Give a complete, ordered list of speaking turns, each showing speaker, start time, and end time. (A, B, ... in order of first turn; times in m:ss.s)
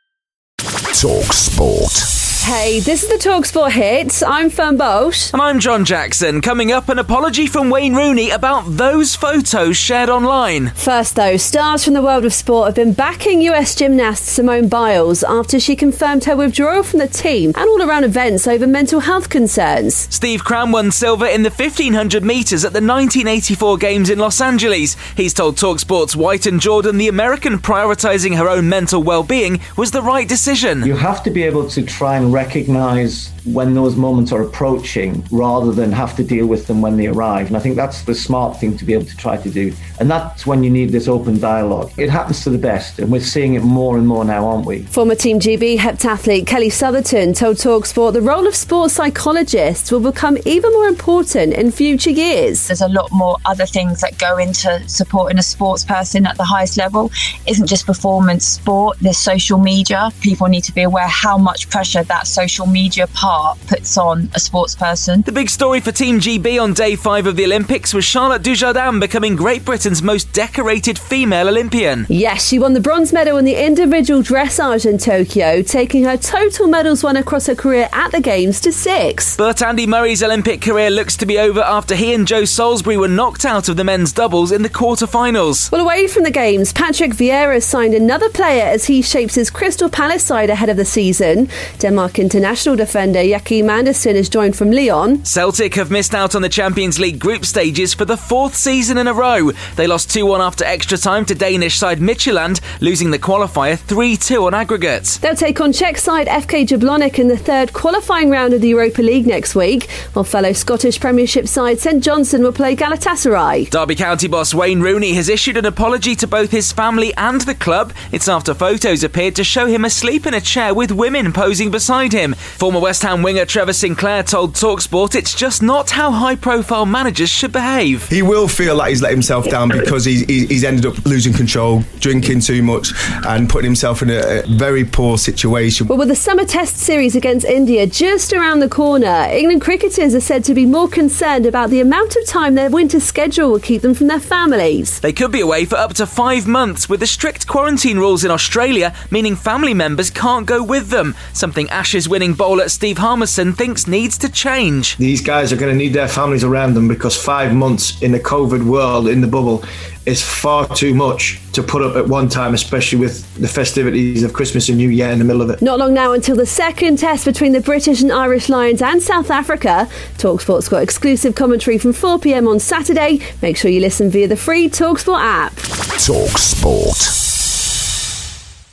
0:00.9-0:01.9 A
0:02.4-0:05.3 B
0:05.3-0:10.7 C
0:10.8-0:20.1 B
0:20.1-0:30.9 C
0:30.8-0:44.9 D
0:44.9-0:52.7 B
0:52.7-1:05.2 E
1:05.2-1:12.0 C
1:12.1-1:19.4 B
1:19.4-1:25.7 C
1:25.7-1:35.2 B
1:35.2-1:45.2 C
1:45.2-1:53.7 B
1:53.7-2:08.0 C
2:08.1-2:15.9 F
2:15.9-2:25.0 B
2:25.0-2:34.9 C
2:35.0-2:45.6 G
2:45.6-2:55.6 B
2:56.0-2:57.1 A